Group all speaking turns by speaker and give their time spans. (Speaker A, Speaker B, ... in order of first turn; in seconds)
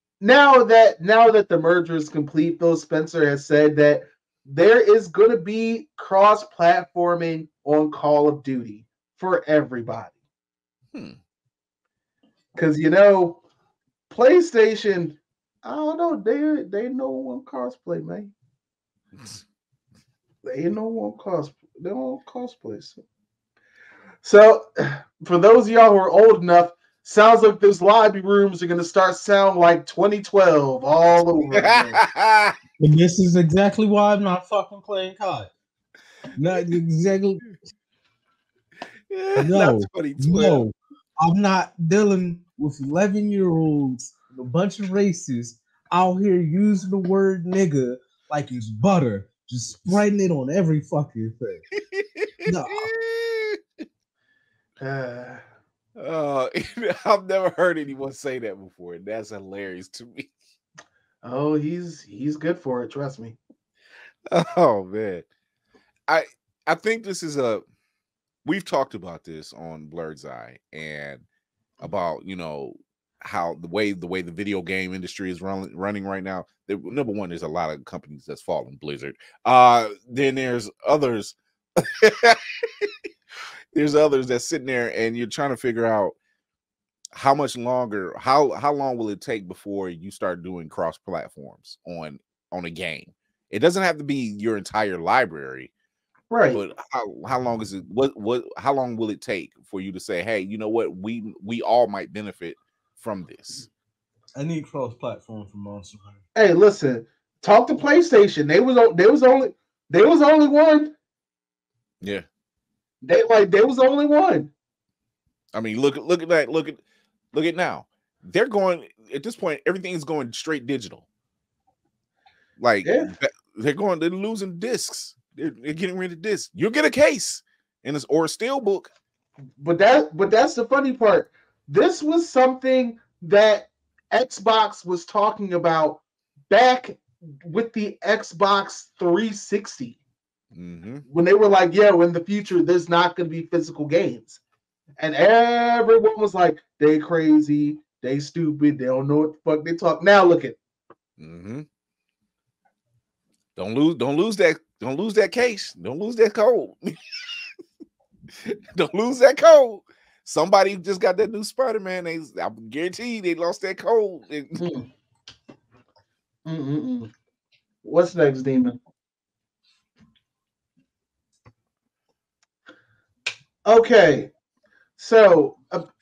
Speaker A: 0.2-10.2, 12.6-13.4, 14.1-18.3, 20.4-23.0, 24.2-32.0, 54.8-55.4, 61.2-63.4, 96.3-96.6, 106.3-110.9, 113.0-114.5, 122.8-123.1, 129.6-140.0, 141.1-144.4, 145.0-150.6, 164.6-164.9, 166.5-167.1, 167.8-168.8, 173.7-174.3, 175.0-175.9
Speaker B: 31.5-32.5, 39.1-40.6, 51.8-53.6, 56.0-60.3, 64.3-65.2, 66.1-67.7, 68.5-71.2, 71.8-82.9, 83.7-86.2, 87.1-95.7, 96.5-103.7, 115.5-116.8, 117.3-121.1, 122.6-128.9, 140.5-141.1, 151.2-151.7, 153.6-157.0, 158.4-164.6
Speaker C: 32.8-35.5, 36.4-37.5, 39.4-51.6, 52.5-52.9, 104.3-106.2